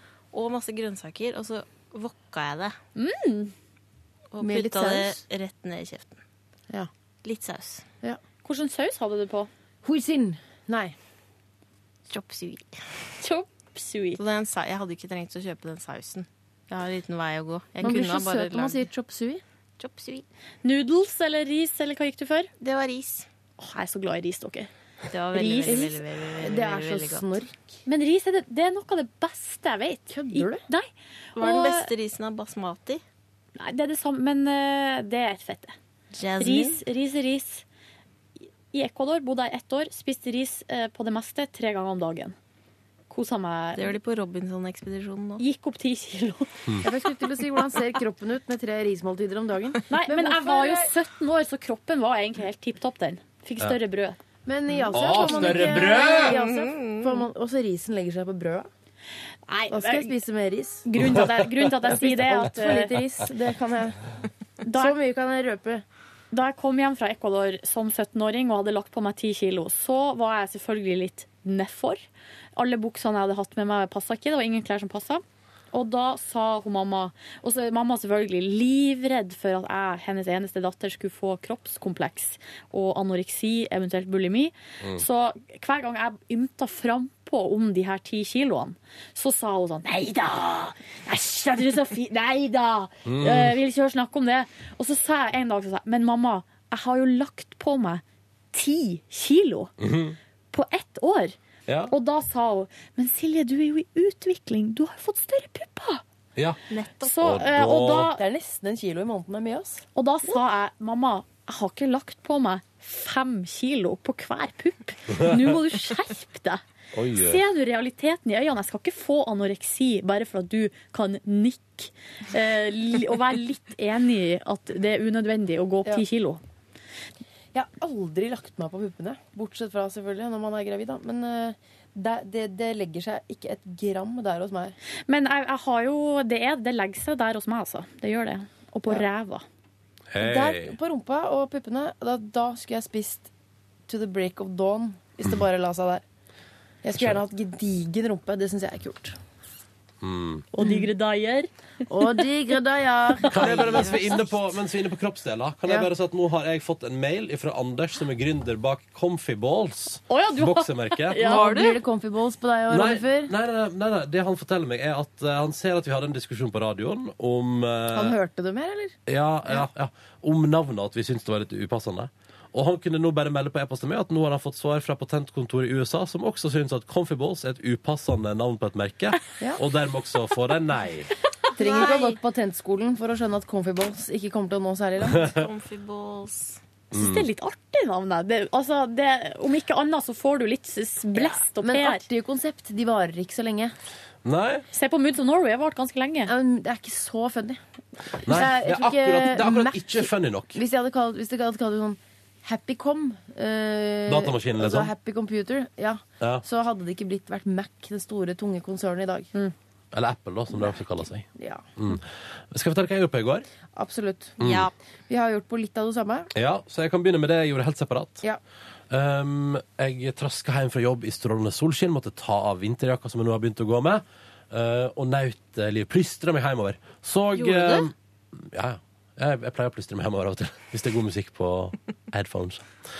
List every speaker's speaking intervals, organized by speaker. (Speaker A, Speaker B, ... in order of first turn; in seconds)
Speaker A: 0.3-2.8, 4.3-6.2, 7.2-7.8, 12.1-12.8, 14.2-18.9, 19.8-20.2, 22.6-23.3, 25.1-27.3, 31.4-33.0, 36.1-36.8, 43.8-45.4, 56.2-57.2, 106.7-107.2, 161.3-161.8, 181.6-182.2, 185.2-186.6, 214.4-214.7, 227.3-227.8
Speaker B: 3.0-3.5, 8.4-9.5, 13.2-14.2, 20.6-22.5, 23.6-24.7, 25.3-25.9, 27.9-31.9, 33.5-35.7, 36.4-37.6, 38.7-42.3, 43.1-44.0, 45.4-46.5, 49.9-54.2, 59.5-60.1, 60.8-63.0, 64.6-65.0, 66.3-72.0, 72.5-99.7, 100.5-101.3, 101.9-106.0, 107.0-108.2, 109.9-116.6, 117.1-126.4, 135.1-139.4, 150.5-151.5, 153.2-153.6, 160.1-161.8, 186.9-192.1, 194.7-196.3
Speaker C: 4.4-5.2, 9.8-10.9, 17.8-19.4, 25.6-27.6, 30.1-30.6, 46.8-50.9, 54.5-58.7, 59.7-60.9, 61.8-64.1, 64.7-65.8, 108.1-109.8, 127.5-134.8, 140.2-143.3, 143.9-146.0, 146.8-149.2, 150.6-150.9, 151.9-154.3, 161.2-163.3, 167.9-168.9, 181.6-185.3, 191.1-193.7, 196.2-197.6, 198.1-209.3, 211.3-211.6, 213.7-216.3
Speaker D: 54.9-56.4, 93.0-93.5, 99.8-100.2, 101.7-101.9, 107.1-108.1, 116.9-117.4, 140.1-140.7, 150.0-150.4, 153.3-161.3, 162.7-168.2, 169.1-181.1, 186.9-187.3, 194.2-194.7, 198.2-200.6, 204.1-204.9, 209.9-213.4, 214.4-214.7, 216.3-218.2, 218.9-232.7